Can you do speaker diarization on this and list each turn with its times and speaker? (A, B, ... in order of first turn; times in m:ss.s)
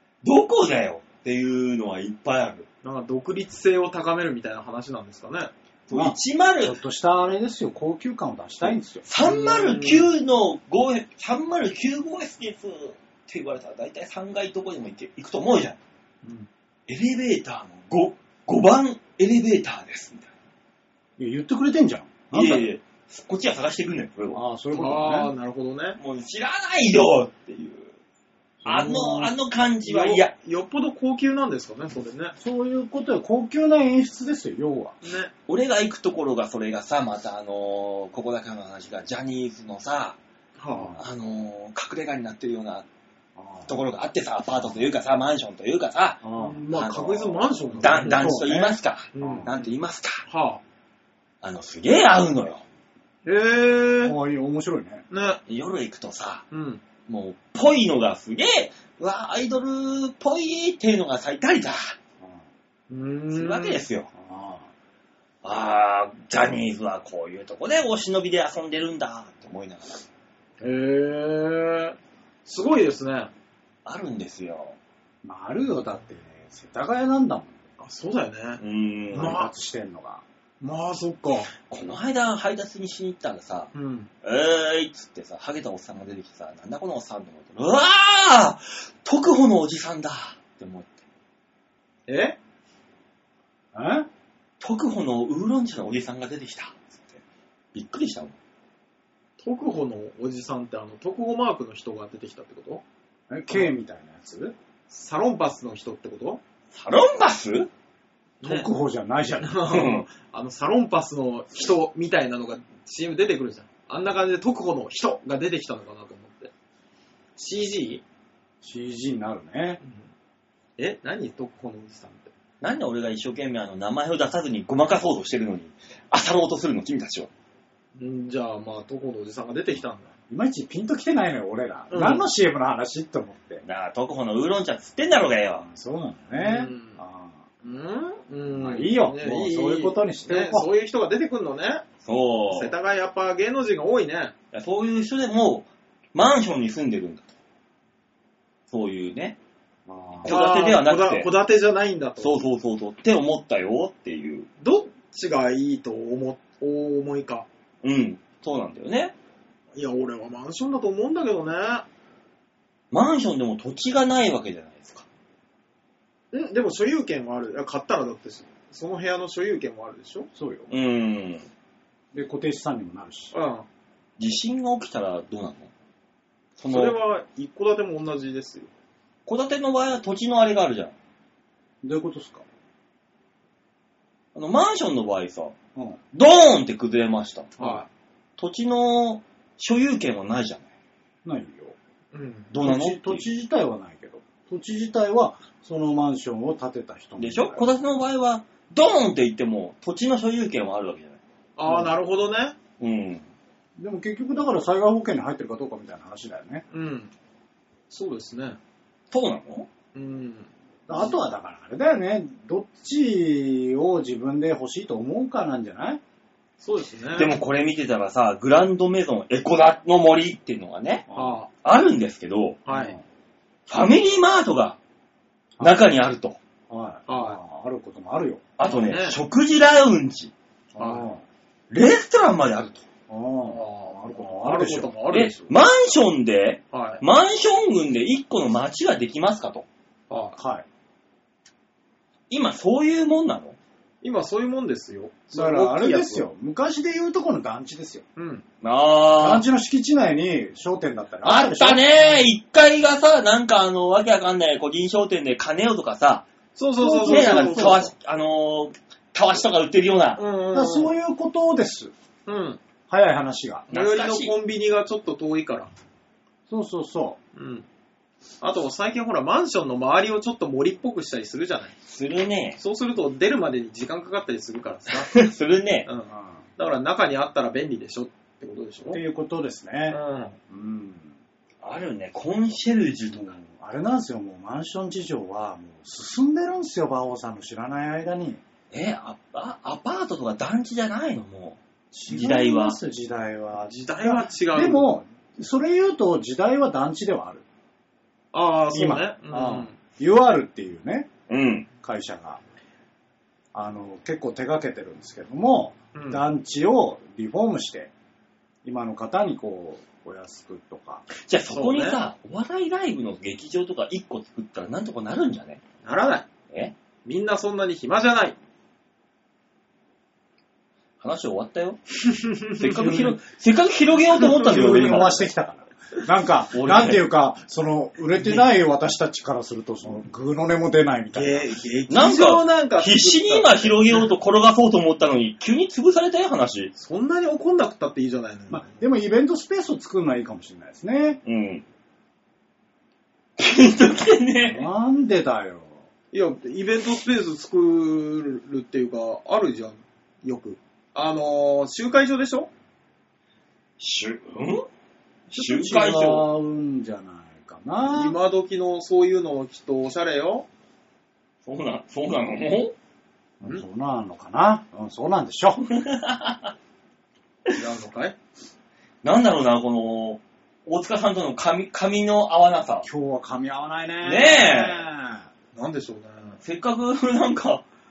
0:00.2-0:02.7 A
0:02.8-0:05.5 B
0:05.9-0:06.8 A
0:05.9-0:09.0 C
0:08.6-0:15.8 A
0:09.2-0:10.1 B
0:16.2-0:16.5 B
0:16.9-0:20.3 A
0:21.2-0:22.7 C
0:22.3-0:24.4 A
0:24.3-0:25.3 C
0:24.7-0:26.0 B
0:26.0-0:27.9 A
0:28.6-0:30.3 A
0:28.7-0:29.3 B
0:28.7-0:29.0 C
0:29.8-0:32.4 B
0:32.4-0:35.0 C
0:35.0-0:35.3 B
0:35.5-0:40.2 A
0:40.6-0:41.0 B
0:40.7-0:41.0 C
0:41.0-0:42.9 A
0:43.4-0:43.8 C
0:43.7-0:50.3 A
0:46.2-0:46.6 C
0:46.4-0:48.4 B
0:48.0-0:49.5 C
0:49.2-0:49.7 B
0:50.3-0:50.6 B
0:51.4-0:52.6 A
0:53.2-0:54.2 B
0:54.0-0:55.0 C
0:55.1-0:55.4 B
0:55.5-0:56.4 A
0:56.5-0:56.8 B
0:57.1-1:02.0 A
1:02.9-1:03.8 B
1:03.3-1:04.1 A
1:04.1-1:04.7 C
1:05.4-1:10.0 A
1:10.6-1:13.3 B
1:13.8-1:14.8 A
1:15.2-1:17.6 C
1:17.8-1:18.6 B
1:18.6-1:19.4 A
1:19.1-1:20.2 C
1:19.1-1:19.5 B
1:20.6-1:21.5 B
1:21.7-1:23.7 A
1:23.7-1:24.1 B
1:24.2-1:30.9 A
1:32.1-1:32.4 B
1:33.7-1:34.1 C
1:34.6-1:37.2 A
1:37.7-1:38.4 A
1:39.4-1:42.8 B
1:43.3-1:44.6 C
1:44.9-1:46.4 B
1:46.7-1:47.7 A
1:48.4-1:48.7 B
1:48.4-1:49.8 C
1:49.4-1:56.5 B
1:49.7-1:50.1 A
1:57.4-1:58.0 B
1:58.6-1:59.8 C
2:00.8-2:02.3 B
2:02.6-2:07.3 A
2:08.0-2:10.1 B
2:10.3-2:13.6 C
2:11.9-2:12.2 B
2:13.6-2:15.6 A
2:15.6-2:17.4 C
2:16.4-2:17.0 B
2:17.6-2:21.8 B
2:18.5-2:20.7 C
2:22.0-2:22.7 A
2:22.5-2:24.3 B
2:24.5-2:27.3 A
2:28.7-2:29.4 A
2:29.9-2:30.4 C
2:30.2-2:31.3 A
2:30.3-2:32.4 B
2:32.2-2:34.5 A
2:34.6-2:37.5 B
2:37.8-2:39.1 A
2:39.7-2:41.9 B
2:42.9-2:45.1 A
2:46.3-2:50.3 B
2:50.4-2:50.7 C
2:50.7-2:51.5 A
2:52.1-2:53.3 C
2:53.3-2:53.7 B
2:54.2-2:55.7 A
2:56.6-2:57.0 A
2:56.7-2:58.7 B
2:59.3-3:01.0 A
3:01.8-3:02.4 C
3:04.3-3:05.6 A
3:06.1-3:07.6 A
3:07.6-3:07.9 B
3:08.4-3:10.7 A
3:11.2-3:11.8 C
3:12.1-3:12.5 B
3:12.5-3:17.7 C
3:12.6-3:13.3 A
3:17.2-3:21.2 A
3:21.6-3:22.6 B
3:21.7-3:21.9 C
3:22.8-3:23.2 A
3:23.8-3:26.7 C
3:26.7-3:27.1 B
3:27.9-3:28.6 B
3:29.1-3:29.7 A
3:29.9-3:31.1 B
3:30.9-3:36.0 C
3:36.6-3:37.4 B
3:37.2-3:41.1 A
3:41.1-3:41.4 C
3:41.1-3:41.5 B
3:41.6-3:42.6 A
3:42.7-3:43.0 B
3:42.7-3:43.0 C
3:43.7-3:44.8 A
3:45.6-3:46.4 A
3:46.7-3:48.5 C
3:47.1-3:47.4 B
3:48.6-3:50.3 A
3:48.6-3:49.2 B
3:50.7-3:51.2 C
3:50.8-3:51.1 B
3:51.7-3:52.8 A
3:53.1-3:54.9 C
3:53.4-3:55.5 B
3:55.1-3:59.7 A
3:56.7-3:57.0 B
4:00.1-4:00.4 B
4:00.4-4:00.7 C
4:02.3-4:03.6 A
4:04.0-4:06.3 B
4:05.3-4:08.0 C
4:08.2-4:08.4 B
4:08.6-4:09.4 A
4:09.2-4:12.2 C
4:11.2-4:16.3 A
4:16.6-4:17.9 B
4:16.8-4:17.8 C
4:17.0-4:20.2 A
4:20.2-4:20.9 B
4:20.5-4:21.9 C
4:22.3-4:22.6 B
4:22.9-4:23.7 C
4:23.7-4:24.3 A
4:23.7-4:25.7 B
4:26.5-4:27.2 C
4:27.4-4:27.6 B
4:28.4-4:31.8 B
4:31.9-4:32.6 A
4:32.6-4:35.2 B
4:34.9-4:35.9 A
4:35.9-4:39.0 B
4:36.1-4:36.4 C
4:38.9-4:40.0 C
4:39.9-4:40.4 B
4:40.5-4:41.1 C
4:41.6-4:43.4 A
4:43.1-4:48.4 C
4:48.7-4:52.8 A
4:51.9-4:57.4 C
4:53.7-4:55.0 B
4:58.3-4:59.8 B
4:58.7-5:01.1 C
5:01.3-5:01.7 A
5:01.8-5:02.4 C
5:03.5-5:07.9 C
5:05.9-5:06.2 B
5:08.6-5:11.1 C
5:11.2-5:15.6 A
5:11.5-5:12.0 B
5:15.8-5:16.3 B
5:17.0-5:18.4 B
5:21.0-5:21.8 A
5:22.1-5:23.1 B
5:22.6-5:25.2 A
5:24.2-5:25.1 B
5:24.4-5:31.6 C
5:26.5-5:27.0 A
5:31.1-5:34.1 B
5:31.9-5:36.7 A
5:36.8-5:38.8 B
5:38.5-5:41.2 C
5:41.2-5:41.6 A
5:43.4-5:44.7 A
5:44.4-5:45.8 C
5:46.1-5:52.5 B
5:53.8-5:54.6 A
5:55.3-5:56.3 A
5:55.3-5:58.2 C
5:57.9-6:00.5 B
6:01.4-6:02.7 A
6:03.4-6:05.6 C
6:05.7-6:06.5 A
6:07.5-6:08.2 B
6:09.0-6:12.9 A
6:12.8-6:15.2 C
6:14.0-6:14.8 A
6:15.5-6:16.4 B
6:16.4-6:17.6 A